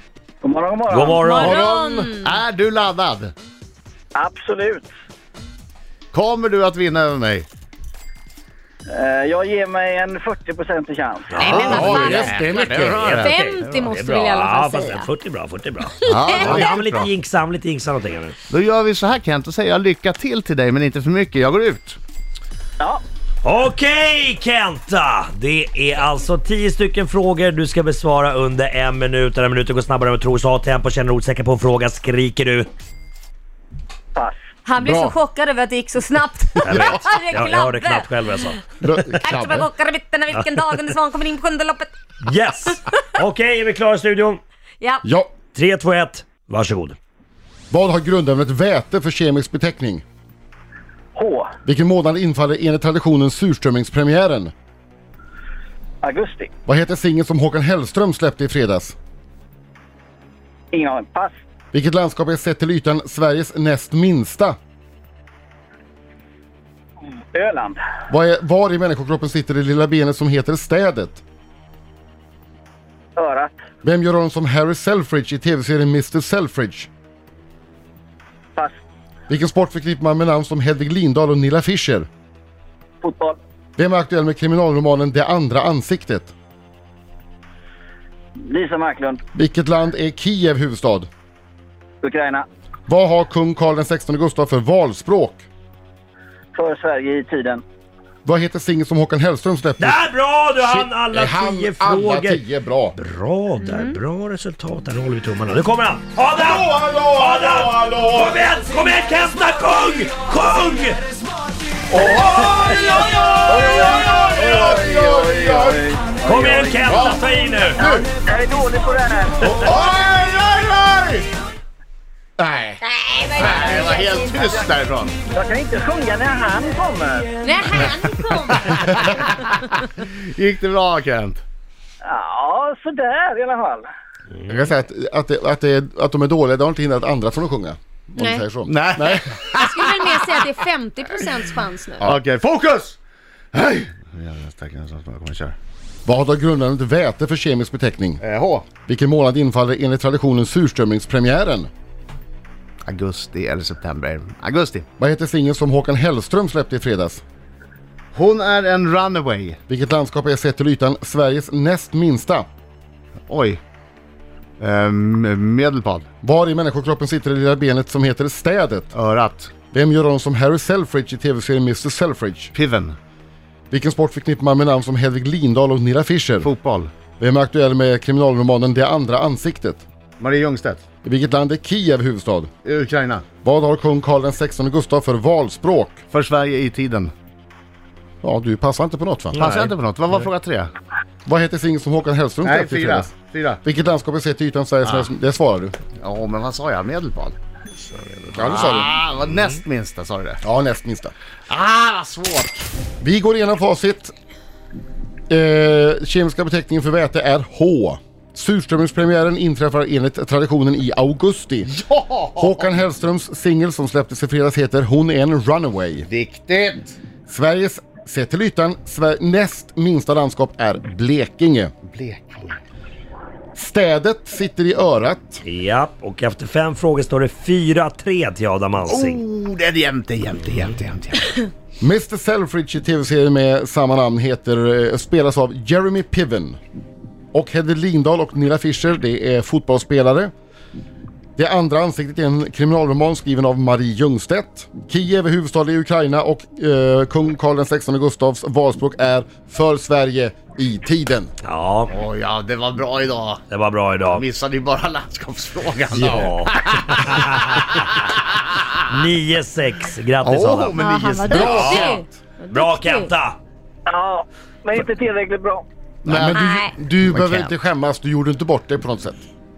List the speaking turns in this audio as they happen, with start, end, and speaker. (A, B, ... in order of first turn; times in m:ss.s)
0:00.4-0:01.3 A
0:00.9-0:01.7 B
0:01.3-0:02.3 C
0:01.4-0:02.1 D
0:02.2-0:03.3 E
0:04.1-0:04.9 A
0:06.1-0:07.4 E
0:08.9-0:12.2 A
0:11.3-0:18.4 B
0:11.4-0:12.2 C
0:11.5-0:13.2 D
0:11.5-0:13.9 E
0:13.2-0:15.1 C
0:16.0-0:16.8 C
0:16.1-0:17.1 E
0:18.5-0:22.0 E
0:23.4-0:32.7 B
0:34.6-0:38.5 C
0:34.8-0:35.1 D
0:36.6-0:39.0 B
0:38.8-0:39.7 D
0:39.2-0:41.9 C
0:40.3-0:40.6 B
0:42.2-0:44.4 B
0:42.7-0:43.0 C
0:45.0-0:45.3 D
0:45.5-0:47.0 B
0:47.7-0:50.0 D
0:51.1-0:51.5 A
0:51.6-0:54.5 D
0:56.0-0:56.5 A
0:56.6-0:59.0 D
1:00.7-1:01.4 A
1:01.7-1:04.6 D
1:07.3-1:07.8 A
1:08.1-1:11.2 D
1:13.2-1:13.5 A
1:13.8-1:16.9 D
1:19.3-1:22.1 D
1:23.0-1:23.4 A
1:23.8-1:26.3 D
1:28.4-1:29.2 A
1:29.3-1:31.1 D
1:32.0-1:32.4 A
1:32.9-1:35.4 D
1:36.5-1:37.6 A
1:38.2-1:40.0 D
1:39.8-1:42.4 B
1:40.6-1:43.0 D
1:42.9-1:51.0 B
1:43.6-1:44.0 C
1:46.3-1:48.5 D
1:51.9-1:55.8 D
1:52.0-1:56.8 A
1:56.2-1:57.9 B
1:56.9-1:57.2 E
1:57.8-1:59.6 A
1:59.4-2:01.3 E
2:02.5-2:05.2 E
2:03.1-2:04.5 C
2:05.3-2:07.3 A
2:07.4-2:08.7 C
2:08.3-2:11.4 E
2:12.0-2:13.9 A
2:14.5-2:19.3 D
2:18.2-2:18.5 C
2:18.6-2:20.6 E
2:19.5-2:22.1 C
2:22.0-2:23.0 E
2:23.5-2:25.6 E
2:26.0-2:28.2 D
2:28.2-2:28.6 E
2:28.8-2:31.7 D
2:32.8-2:34.8 E
2:35.0-2:37.2 D
2:38.1-2:39.6 E
2:39.7-2:42.5 D
2:43.3-2:43.6 E
2:44.6-2:46.1 E
2:46.2-2:48.9 D
2:48.9-2:49.5 E
2:49.7-2:52.5 D
2:52.5-2:53.0 E
2:53.7-2:56.5 D
2:56.4-2:56.9 E
2:57.2-2:59.8 D
3:00.2-3:00.8 E
3:01.0-3:02.5 D
3:02.6-3:03.2 E
3:03.4-3:06.0 D
3:06.1-3:07.1 E
3:08.2-3:09.4 D
3:09.3-3:10.3 B
3:09.4-3:10.7 E
3:11.2-3:15.8 D
3:12.4-3:13.6 E
3:16.0-3:17.4 E
3:17.9-3:20.4 E
3:18.3-3:18.9 D
3:20.4-3:21.1 D
3:21.5-3:22.6 E
3:23.0-3:24.1 D
3:25.3-3:31.8 D
3:31.7-3:32.7 E
3:32.3-3:36.1 D
3:36.1-3:37.0 E
3:37.3-3:41.7 D
3:41.9-3:42.6 E
3:43.5-3:45.4 D
3:45.4-3:49.2 B
3:48.9-3:51.3 E
3:51.8-3:56.6 D
3:57.3-4:00.3 D
4:01.4-4:11.3 D
4:11.4-4:11.9 B
4:11.9-4:13.4 E
4:13.5-4:14.2 B
4:14.1-4:18.7 E
4:15.9-4:17.9 B
4:18.8-4:23.4 B
4:20.2-4:21.9 E
4:20.7-4:23.1 C
4:21.3-4:22.0 D
4:23.9-4:25.6 A
4:26.0-4:26.4 E
4:26.0-4:29.2 D
4:26.4-4:26.7 C
4:27.0-4:27.5 E